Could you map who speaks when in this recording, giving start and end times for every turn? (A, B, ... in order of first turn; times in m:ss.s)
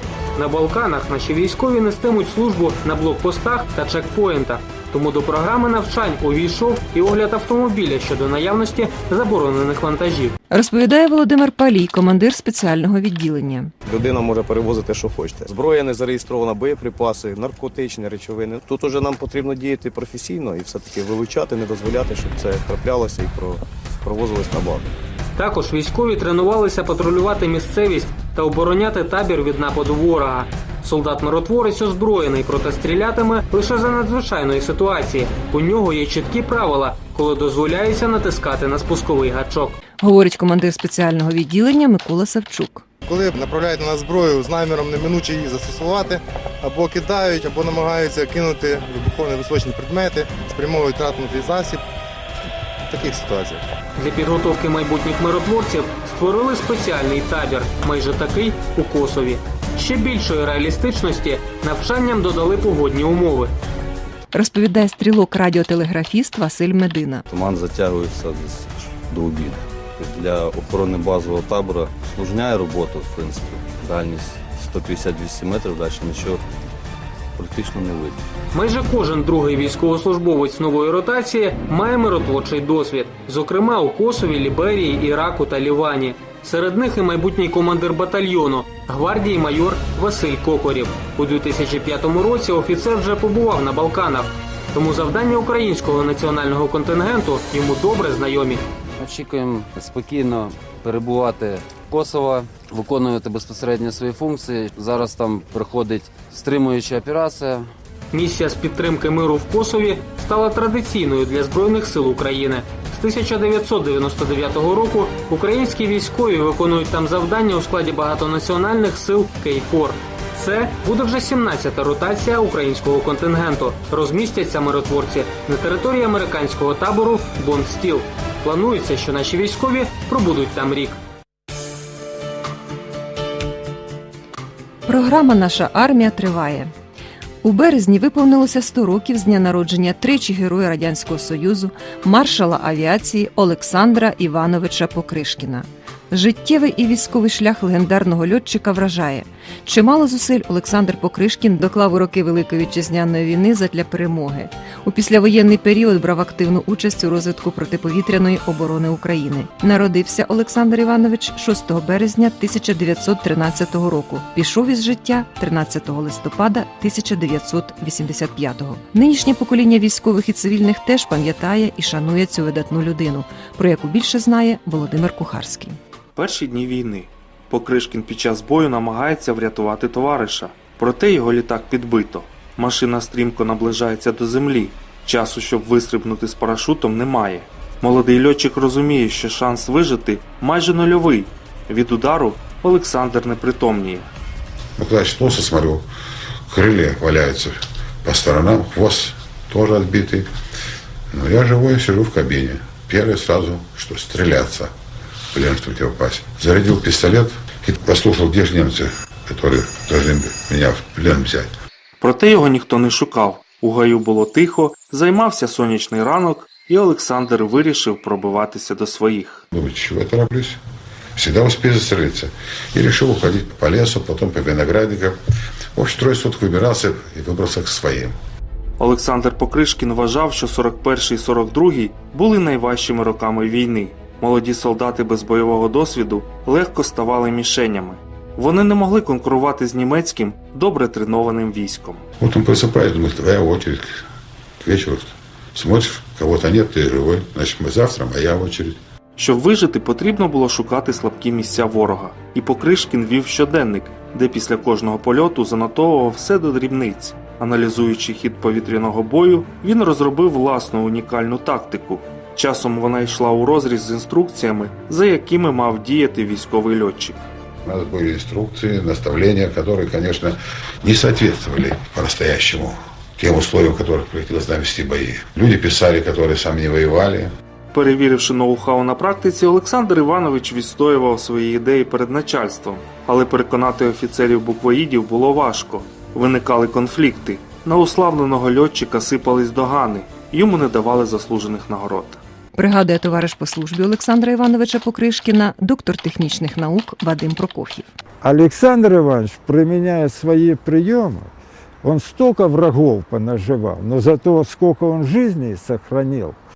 0:00.4-0:10.3 A
0:10.5-0:13.7 B
0:13.9-0:24.8 C
0:15.2-0:23.2 D
0:24.0-0:24.8 D
0:25.4-0:39.8 A
0:40.0-0:42.8 B
0:43.1-0:51.8 E
0:52.9-0:53.6 E
0:54.0-1:03.5 A
1:04.3-1:07.2 B
1:07.3-1:16.4 D
1:17.4-1:18.2 D
1:18.5-1:38.6 A
1:39.0-1:47.7 F
1:48.1-2:11.0 A
2:14.8-2:16.7 B
2:17.4-2:55.8 B
2:56.2-3:14.1 G
3:14.8-3:15.8 H
3:16.5-3:20.3 H
3:21.1-3:24.7 H
3:25.3-3:31.5 H
3:32.0-3:39.4 G
3:39.5-3:40.6 H
3:41.2-3:45.2 H
3:45.7-3:48.1 H
3:48.8-4:02.0 G
4:02.2-4:04.0 H
4:04.6-4:08.8 H
4:09.2-4:27.2 G
4:27.6-4:37.3 H
4:37.7-4:52.2 G
4:52.5-4:57.9 B
4:58.2-5:01.3 I
5:01.8-5:06.4 I